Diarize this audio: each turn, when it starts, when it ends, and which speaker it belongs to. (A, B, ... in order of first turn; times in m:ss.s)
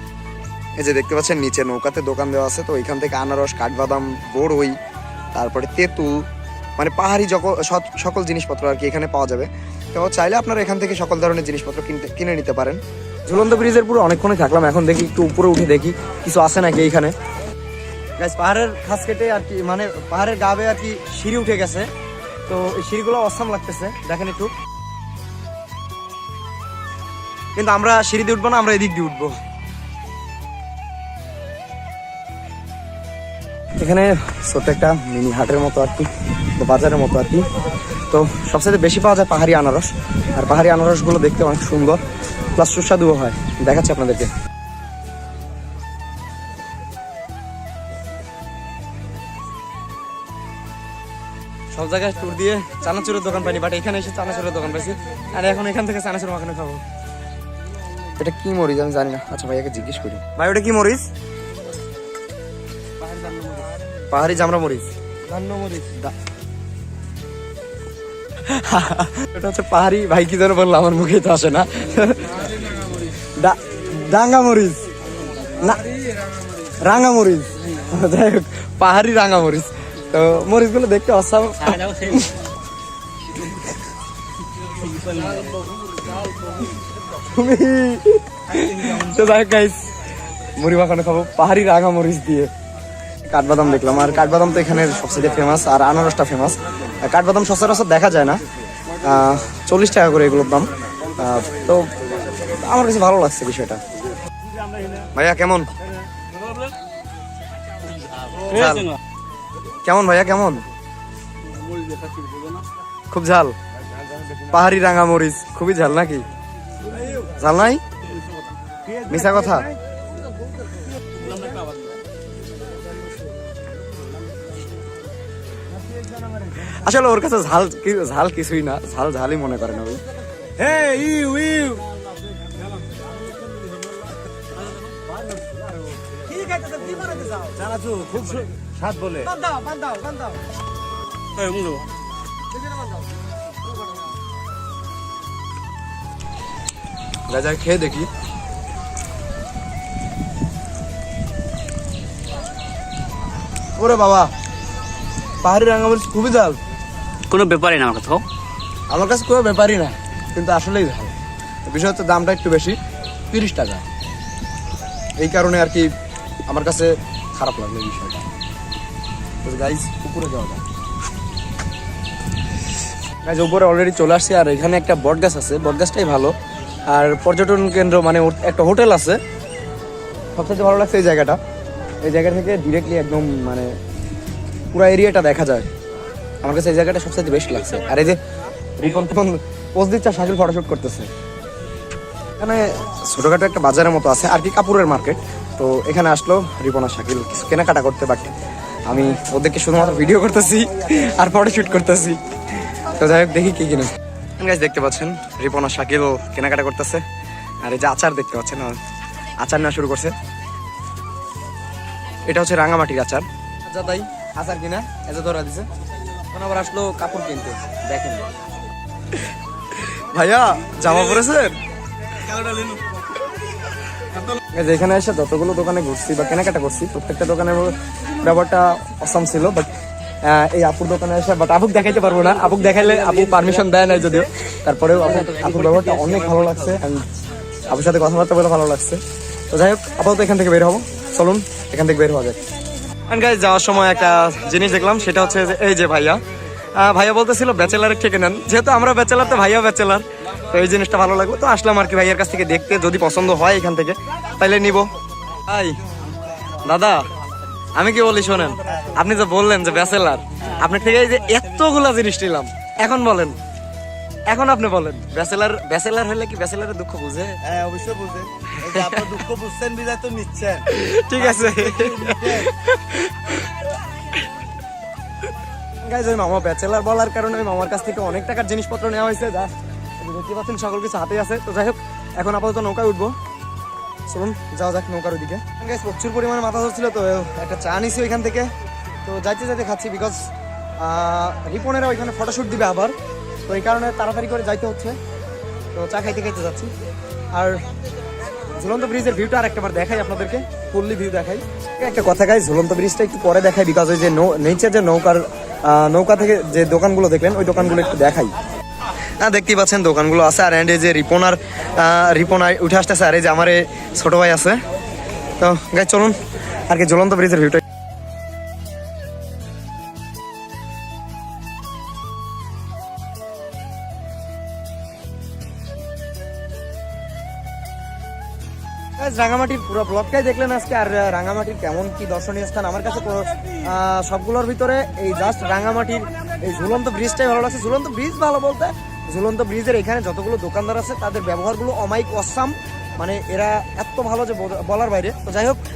0:00.8-0:04.8 A
0:05.3-0:06.2 A
0:06.8-0:17.1 A
0:18.2-0:21.9 A
0:22.5-0:24.5 A
0:27.6-0:29.4 A
0:33.8-0:37.5 A
0:38.1-0:42.0 A
0:42.5-0:44.3 A
0:51.7-0:56.8 A
0:58.2-1:01.1 A
1:03.9-1:06.1 A
1:08.4-1:12.5 A
1:13.4-1:14.8 A
1:15.5-1:15.9 A
1:16.7-1:22.4 A
1:25.0-1:25.2 B
1:27.1-1:29.9 A
1:30.6-1:32.5 A
1:33.2-1:38.4 A
1:39.0-1:43.8 A
1:45.1-1:45.7 A
1:48.5-1:48.9 A
1:49.8-1:50.6 A
1:51.6-1:52.6 B
1:53.1-1:53.6 A
1:54.5-1:56.2 A
1:57.1-1:57.8 A
1:59.0-1:59.7 A
2:01.5-2:01.7 B
2:06.4-2:10.0 A
2:10.6-2:11.8 C
2:16.4-2:17.6 A
2:17.6-2:19.2 C
2:19.2-2:20.4 A
2:21.3-2:21.8 B
2:27.3-2:28.1 A
2:33.8-2:34.3 A
2:35.4-2:36.6 A
2:37.3-2:38.2 B
2:38.9-2:41.1 A
2:41.6-2:42.8 A
2:43.3-2:43.8 A
2:45.2-2:45.9 A
2:46.4-2:48.2 A
2:49.4-2:50.6 A
2:53.2-2:56.3 A
2:56.9-2:59.2 A
3:00.4-3:01.4 A
3:02.0-3:03.7 A
3:04.7-3:05.7 A
3:06.4-3:08.2 A
3:08.8-3:11.1 A
3:12.4-3:18.3 A
3:18.9-3:27.0 A
3:27.6-3:28.8 A
3:29.4-3:30.1 A
3:32.2-3:35.7 A
3:36.3-3:38.3 A
3:39.8-3:41.6 A
3:44.5-3:49.7 A
3:50.2-3:57.0 A
3:57.7-4:02.4 A
4:03.1-4:06.2 A
4:06.7-4:14.9 A
4:15.5-4:15.8 A
4:16.6-4:17.1 A
4:17.7-4:23.4 A
4:24.3-4:27.4 A
4:27.5-4:28.3 C
4:28.5-4:29.3 A
4:29.0-4:30.5 C
4:30.5-4:33.5 A
4:35.8-4:43.1 A
4:44.1-4:48.5 A
4:49.0-4:52.9 A
4:53.5-4:55.0 A
4:55.7-4:56.7 A
4:57.3-4:57.6 A
4:58.5-5:08.3 A
5:09.2-5:14.6 A
5:15.4-5:17.6 A
5:29.0-5:45.6 A